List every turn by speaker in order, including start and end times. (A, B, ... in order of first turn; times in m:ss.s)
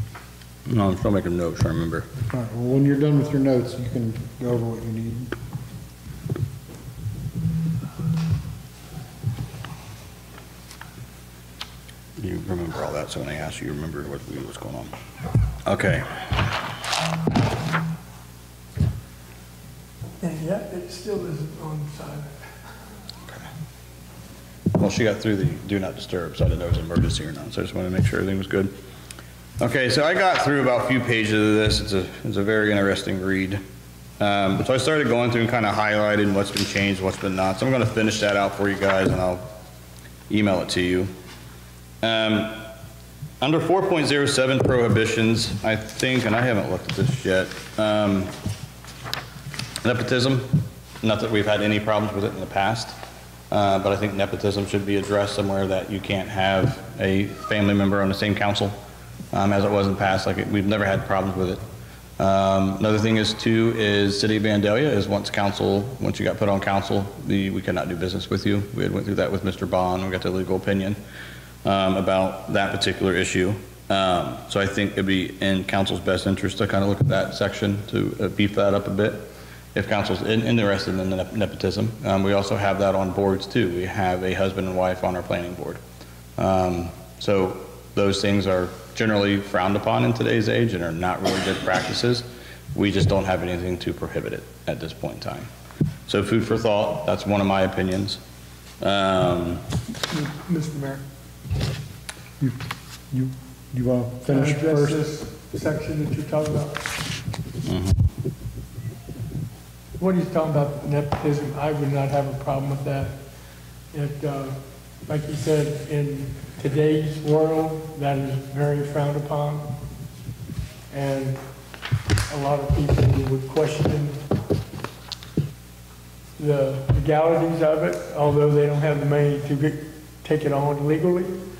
0:00.7-0:02.1 A
0:02.3-0:05.4 B
0:12.2-0:14.9 A
0:15.6-0:16.5 A
0:20.2-0:22.5 C
0:24.8-0:28.7 A
0:29.6-0:33.6 A
0:34.2-0:39.4 A
0:40.3-0:41.1 A
0:42.0-0:42.7 A
0:43.4-0:48.3 A
0:49.8-0:53.0 A
0:53.5-0:58.8 A
0:59.3-1:01.6 A
1:02.2-1:11.0 A
1:11.6-1:25.8 A
1:26.4-1:35.5 A
1:36.1-1:38.2 A
1:38.8-1:39.6 A
1:40.1-1:41.0 C
1:42.4-1:45.0 B
1:44.3-1:46.9 C
1:47.7-1:48.0 A
1:50.0-1:53.2 C
1:53.9-1:59.7 C
2:00.9-2:01.4 C
2:02.3-2:04.2 C
2:06.4-2:11.4 C